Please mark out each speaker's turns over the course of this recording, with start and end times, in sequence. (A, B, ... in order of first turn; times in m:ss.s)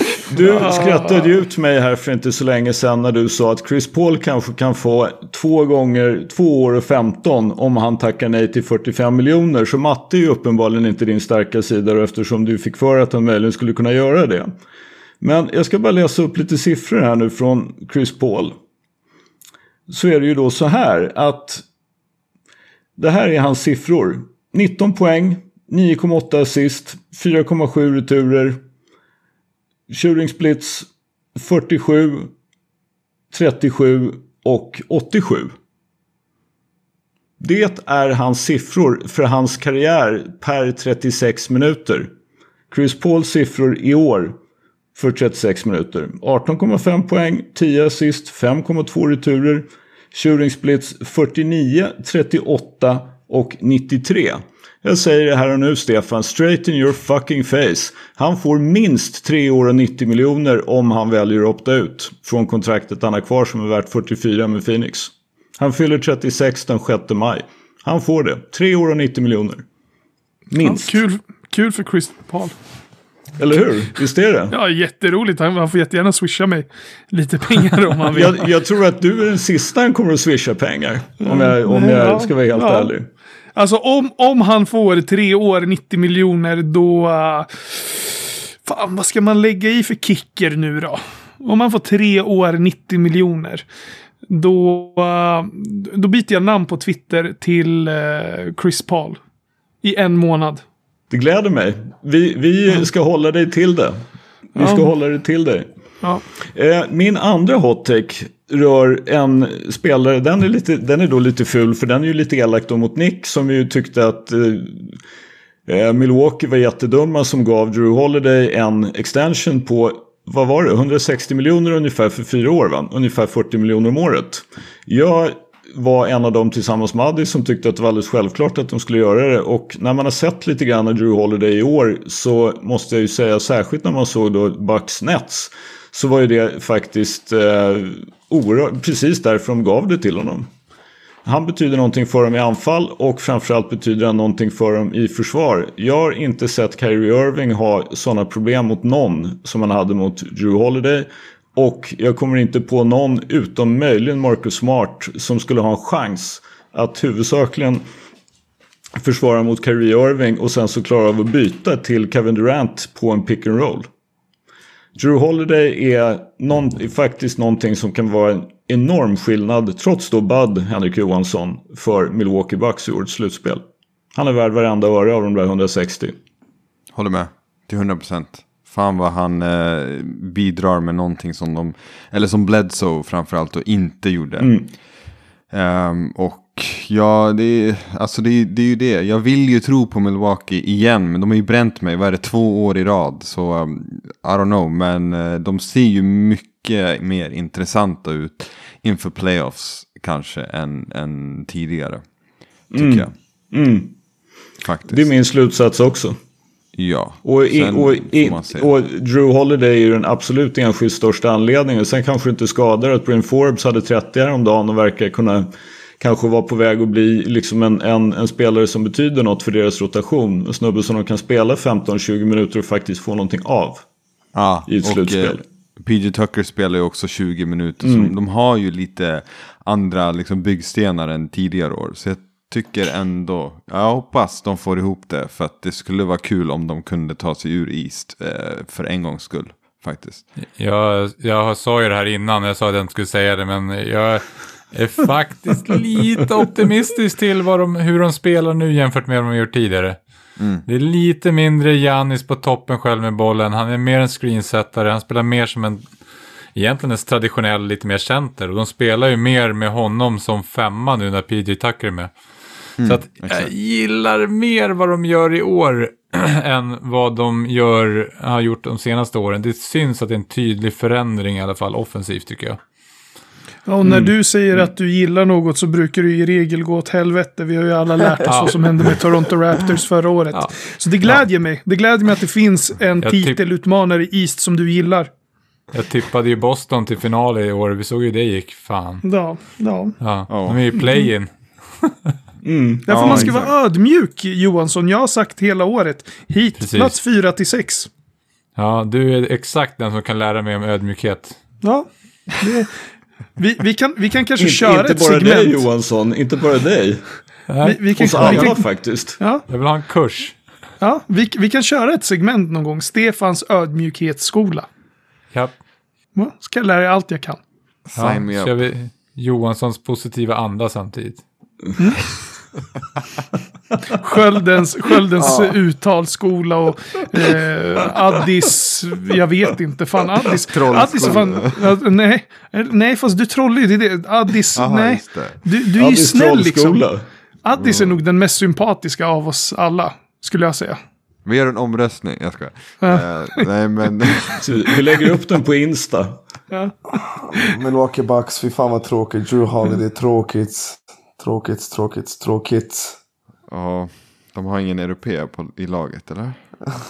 0:00.3-0:14.5 A
0:00.4-0:01.3 B
0:15.2-0:18.6 A
0:19.9-0:21.6 A
0:23.0-0:28.6 A
0:29.9-0:32.3 A
0:33.3-0:35.5 A
0:37.4-0:42.1 A
0:42.7-0:44.4 A
0:45.0-1:09.6 A
1:10.5-1:11.0 A
1:10.6-1:12.5 B
1:13.4-1:14.5 A
1:14.5-1:18.4 B
1:18.1-1:23.0 A
1:21.2-1:22.9 B
1:23.5-1:33.6 B
1:34.3-1:39.2 B
1:39.8-1:40.6 B
1:41.1-1:44.0 A
1:44.5-1:45.7 A
1:44.6-1:44.9 B
1:46.5-1:54.9 A
1:55.7-2:20.5 A
2:21.2-2:37.8 A
2:39.0-2:43.9 A
2:45.0-2:53.6 A
2:54.1-2:56.2 A
2:56.9-3:04.6 C
3:04.4-3:04.7 A
3:05.5-3:22.0 C
3:22.7-3:23.1 C
3:22.7-3:23.9 A
3:24.6-3:25.0 C
3:24.9-3:26.2 A
3:26.8-3:28.7 C
3:27.2-3:35.5 A
3:36.0-3:43.8 A
3:44.3-4:00.2 C
3:44.6-3:45.4 A
3:47.8-3:48.1 A
4:00.6-4:10.0 D
4:10.6-4:15.9 D
4:16.5-4:22.1 D
4:22.8-4:23.5 C
4:22.8-4:32.6 D
4:33.7-4:45.1 B
4:33.8-4:34.1 A
4:38.2-4:38.6 D
4:40.3-4:41.2 D
4:43.0-4:43.4 D
4:45.7-4:49.0 D
4:49.0-4:49.9 B
4:50.0-4:52.1 D
4:50.3-4:50.6 C
4:52.4-4:53.3 A
4:52.8-4:57.9 B
4:52.9-4:53.5 C
4:56.6-4:57.0 D
4:58.6-5:01.4 D
5:01.6-5:01.9 B
5:02.4-5:02.7 B
5:03.4-5:05.6 B
5:04.4-5:07.0 A
5:07.5-5:08.6 D
5:07.6-5:08.7 B
5:08.0-5:09.2 A
5:09.2-5:09.4 B
5:09.5-5:10.4 D
5:10.8-5:14.7 B
5:16.1-5:17.4 B
5:17.9-5:18.6 C
5:18.0-5:21.2 D
5:24.0-5:36.9 B
5:25.2-5:25.6 E
5:30.5-5:31.6 C
5:34.5-5:35.4 C
5:35.8-5:37.0 A
5:37.4-5:40.8 B
5:37.6-5:38.0 C
5:41.2-5:44.4 C
5:42.8-5:43.5 B
5:44.4-5:46.2 A
5:47.3-5:53.0 E
5:53.5-5:56.4 C